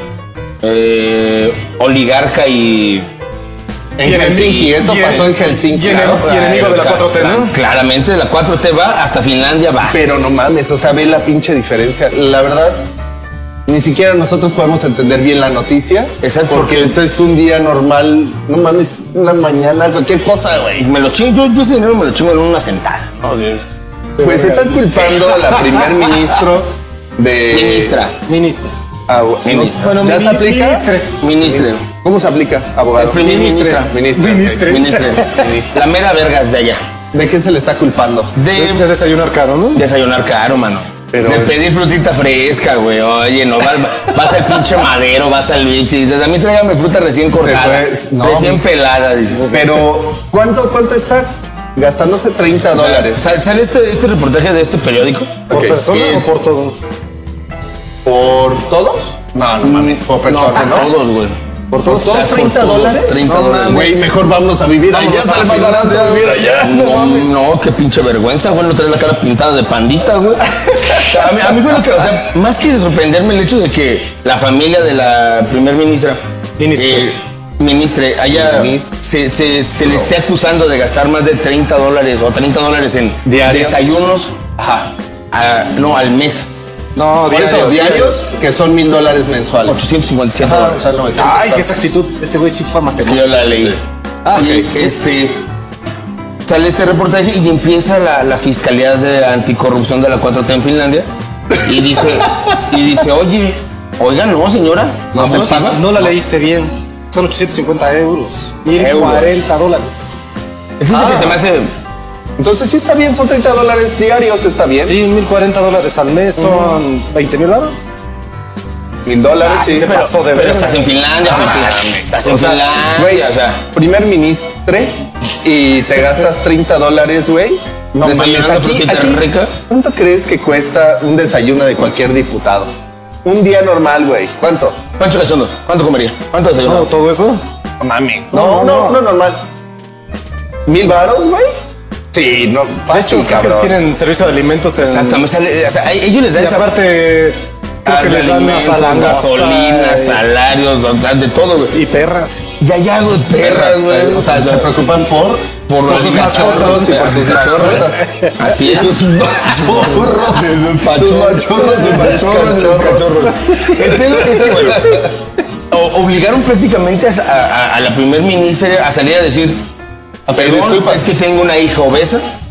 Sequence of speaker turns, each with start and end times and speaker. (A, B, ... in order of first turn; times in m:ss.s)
0:00.6-0:03.1 A
0:04.0-0:06.3 B
0:04.0-0:07.5 C
0:04.1-0:05.3 A
0:05.8-0:10.0 A
0:09.8-0:12.8 B
0:13.7-0:20.9 B
0:16.2-0:17.0 A
0:20.8-0:23.6 A
0:24.2-0:26.2 C
0:24.2-0:28.0 B
0:27.5-0:28.2 A
0:28.2-0:28.7 C
0:29.1-0:35.8 B
0:29.4-0:30.0 A
0:29.8-0:31.2 C
0:31.2-0:31.9 A
0:33.0-0:34.0 A
0:33.4-0:35.5 C
0:34.6-0:36.8 A
0:37.1-0:38.4 B
0:38.4-0:38.9 A
0:38.5-0:39.8 C
0:39.7-0:49.6 A
0:41.1-0:41.6 B
0:47.3-0:48.6 B
0:49.4-0:49.8 C
0:49.5-0:53.2 B
0:52.7-0:56.3 A
0:55.5-0:55.8 B
0:55.5-0:56.8 C
0:58.0-1:00.9 B
0:59.6-1:03.8 A
1:01.7-1:02.2 C
1:01.8-1:07.3 B
1:03.3-1:04.1 C
1:04.9-1:16.2 A
1:16.6-1:17.1 C
1:16.7-1:24.3 A
1:18.3-1:19.0 B
1:19.8-1:20.1 B
1:23.2-1:24.0 B
1:24.6-1:24.9 B
1:25.3-1:26.5 A
1:27.0-1:28.2 C
1:27.3-1:29.8 B
1:27.7-1:28.1 A
1:29.7-1:30.9 A
1:30.4-1:31.7 B
1:31.2-1:33.5 C
1:33.0-1:33.8 A
1:34.2-1:34.9 C
1:34.3-1:35.4 A
1:34.4-1:34.7 B
1:36.5-1:46.0 A
1:45.1-1:45.8 B
1:45.2-1:50.1 C
1:48.8-1:49.3 A
1:50.8-1:51.7 A
1:50.9-1:51.4 C
1:52.4-1:55.0 B
1:54.8-1:57.8 C
1:56.4-1:56.7 A
1:59.0-1:59.9 B
1:59.4-2:01.0 C
1:59.7-2:03.7 A
2:01.2-2:12.7 B
2:08.0-2:09.5 A
2:13.2-2:14.8 B
2:15.0-2:16.9 A
2:16.6-2:17.4 C
2:17.8-2:19.4 B
2:17.9-2:18.3 A
2:18.3-2:19.0 C
2:20.7-2:21.5 B
2:22.1-2:23.8 B
2:22.9-2:25.3 C
2:24.8-2:26.8 A
2:26.3-2:30.2 C
2:27.8-2:31.8 A
2:31.7-2:32.5 C
2:32.6-2:34.7 A
2:33.4-2:38.0 B
2:35.7-2:39.0 A
2:35.8-2:38.4 C
2:38.6-2:45.0 B
2:39.6-2:45.1 A
2:45.7-2:49.6 A
2:50.3-2:51.1 B
2:50.4-2:52.2 A